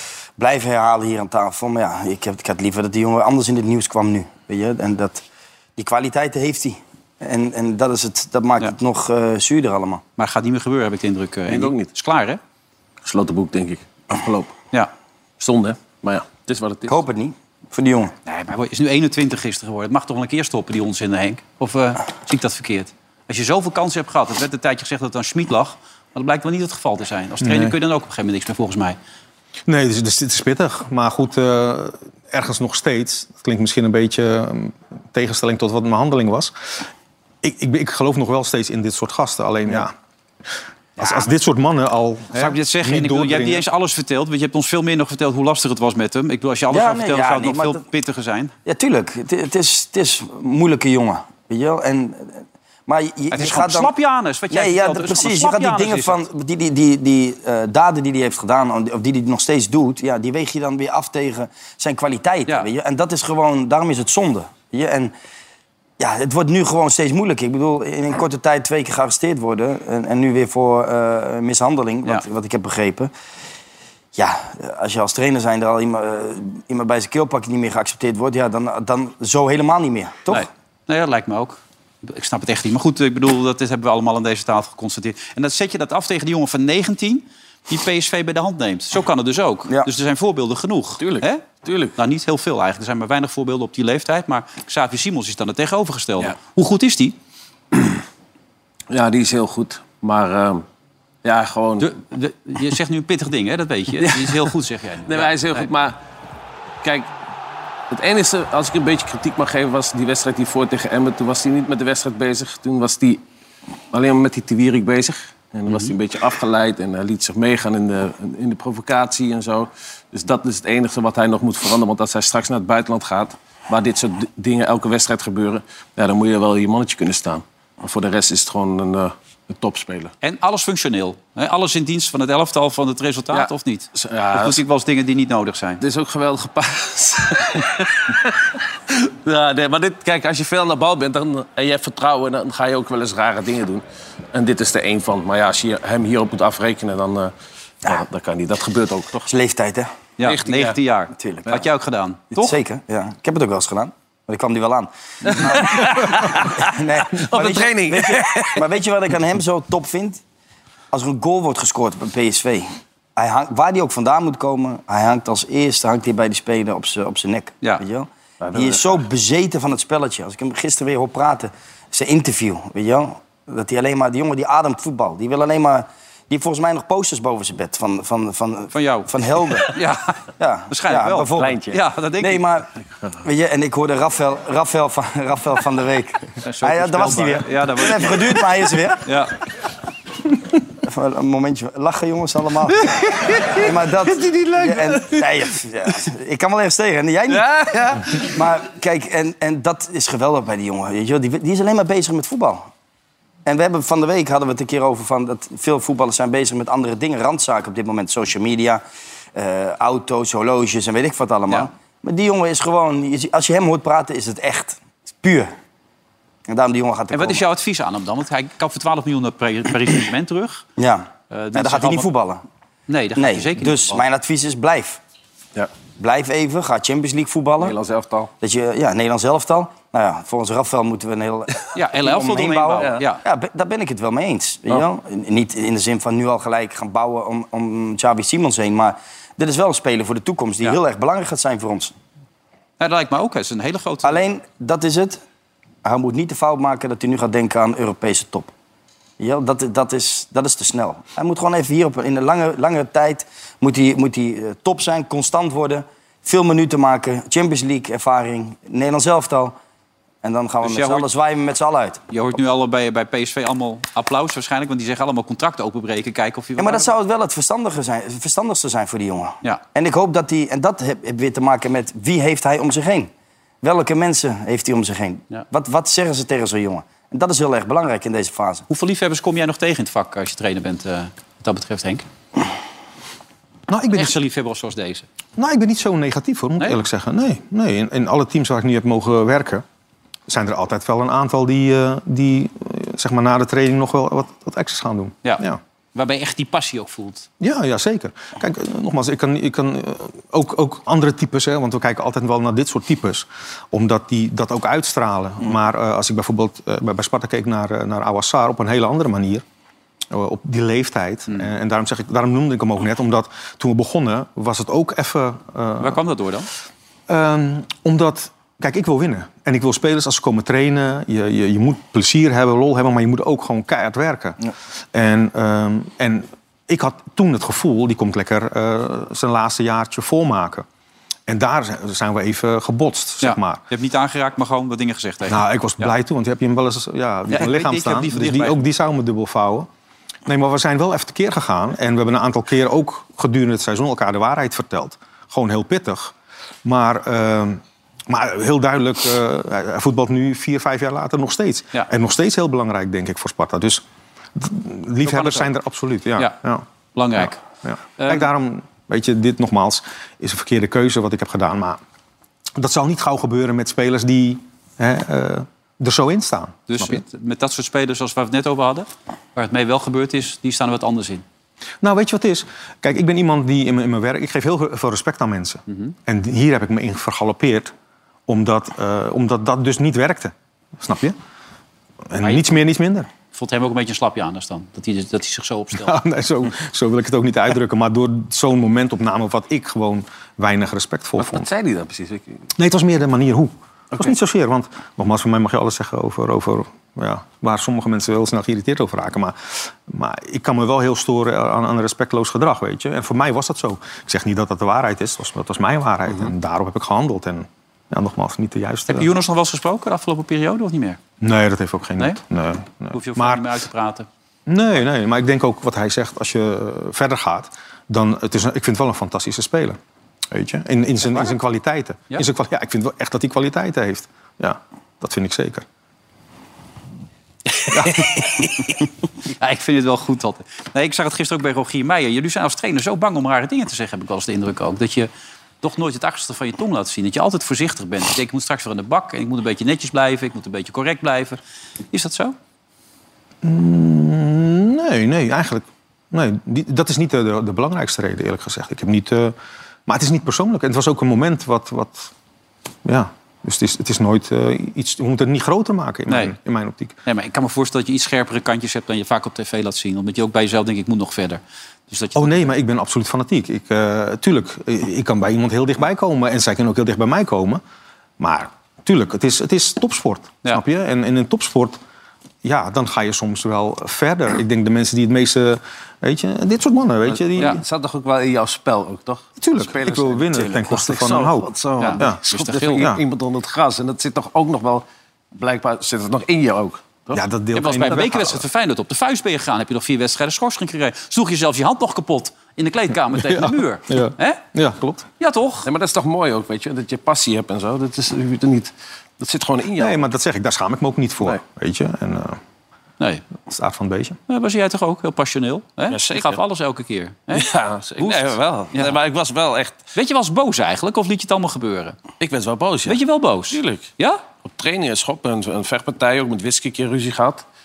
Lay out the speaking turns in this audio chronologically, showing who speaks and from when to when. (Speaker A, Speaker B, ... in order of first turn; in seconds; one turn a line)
Speaker A: 0.4-5.2
Speaker A: 5.8-10.0
Speaker B: 10.2-12.4
Speaker C: 11.5-11.9
Speaker C: 13.0-14.5
Speaker C: 15.4-16.9
Speaker A: 16.9-18.1
Speaker B: 18.2-29.0
Speaker D: 27.4-27.8
Speaker D: 29.7-36.8
Speaker D: 37.4-39.9
Speaker D: 41.0-43.6
Speaker B: 41.0-41.3
Speaker B: 42.3-48.5
Speaker A: 46.7-47.8
Speaker A: 48.6-53.9
Speaker B: 53.3-56.2
Speaker A: 54.5-65.1
Speaker A: 66.0-73.1
Speaker A: 74.1-80.5
Speaker B: 80.3-97.2
Speaker C: 91.0-92.0
Speaker C: 98.9-100.6
Speaker C: 101.2-101.9
Speaker B: 101.8-105.7
Speaker C: 104.0-104.5
Speaker C: 105.1-106.0
Speaker C: 106.8-107.1
Speaker C: 107.9-113.2
Speaker C: 113.9-130.1
Speaker B: 115.7-115.9
Speaker B: 130.2-135.8
Speaker C: 133.3-134.6
Speaker C: 135.8-147.3
Speaker C: 147.8-149.3
Speaker A: 149.3-149.9
Speaker B: 150.2-152.5
Speaker C: 150.2-150.8
Speaker A: 151.2-151.6
Speaker A: 152.3-160.2
Speaker C: 155.3-158.7
Speaker A: 160.9-179.7
Speaker C: 168.4-169.0
Speaker B: 178.7-179.1
Speaker B: 179.6-182.4
Speaker A: 180.4-182.7
Speaker C: 181.4-181.8
Speaker A: 183.2-189.0
Speaker B: 186.4-188.3
Speaker B: 189.0-189.3
Speaker A: 190.8-202.7
Speaker C: 192.9-195.5
Speaker C: 197.3-198.3
Speaker A: 203.4-208.8
Speaker A: 209.3-215.5
Speaker A: 216.5-217.4
Speaker B: 217.1-220.6
Speaker A: 220.8-222.4
Speaker B: 221.3-222.1
Speaker B: 222.9-224.0
Speaker A: 223.2-225.0
Speaker A: 226.0-227.7
Speaker C: 227.6-228.3
Speaker A: 228.4-241.9
Speaker B: 231.7-233.2
Speaker B: 242.8-244.2
Speaker A: 244.0-245.2
Speaker A: 245.8-248.5
Speaker A: 249.2-259.5
Speaker A: 260.2-262.0
Speaker B: 260.6-261.1
Speaker B: 262.1-266.9
Speaker A: 266.6-273.1
Speaker A: 273.6-278.7
Speaker B: 278.7-282.0
Speaker D: 283.7-284.1
Speaker B: 283.9-285.1
Speaker D: 285.4-289.6
Speaker D: 290.3-295.6
Speaker B: 295.9-297.3
Speaker D: 297.4-309.4
Speaker D: 310.1-316.0
Speaker B: 315.8-316.5
Speaker D: 317.1-330.6
Speaker D: 331.3-333.6
Speaker B: 333.2-335.9
Speaker D: 335.2-339.7
Speaker B: 337.3-338.6
Speaker D: 340.2-346.1
Speaker D: 346.6-353.8
Speaker D: 354.4-356.6
Speaker B: 355.0-355.5
Speaker B: 356.9-357.4
Speaker D: 357.1-361.8
Speaker B: 358.0-358.3
Speaker D: 362.6-367.0
Speaker B: 366.7-371.2
Speaker D: 371.8-377.7
Speaker B: 375.7-375.9
Speaker D: 378.3-381.1
Speaker D: 382.1-383.1
Speaker B: 383.3-385.9
Speaker D: 385.7-391.5
Speaker C: 391.2-392.4
Speaker D: 392.6-409.1
Speaker B: 408.9-411.0
Speaker D: 411.2-413.5
Speaker B: 412.9-414.1
Speaker D: 414.5-419.8
Speaker D: 420.3-425.6
Speaker D: 427.7-428.0
Speaker B: 429.4-435.1
Speaker B: 435.6-441.4
Speaker B: 441.9-442.3
Speaker D: 443.4-449.3
Speaker D: 449.9-452.1
Speaker D: 452.8-456.9
Speaker B: 456.1-456.3
Speaker B: 457.1-462.5
Speaker D: 462.1-467.6
Speaker D: 468.2-471.8
Speaker D: 472.4-477.6
Speaker C: 477.1-484.8
Speaker D: 479.4-482.2
Speaker B: 481.8-482.9
Speaker D: 482.7-483.0
Speaker C: 485.3-487.2
Speaker D: 487.1-488.4
Speaker B: 487.5-494.4
Speaker D: 493.1-495.0
Speaker B: 495.2-495.7
Speaker C: 495.6-500.0
Speaker D: 499.8-502.4
Speaker D: 503.5-504.2
Speaker B: 504.3-509.0
Speaker C: 505.9-506.4
Speaker C: 507.3-509.8
Speaker B: 509.9-511.9
Speaker C: 512.2-513.9
Speaker B: 512.9-514.2
Speaker C: 514.4-517.4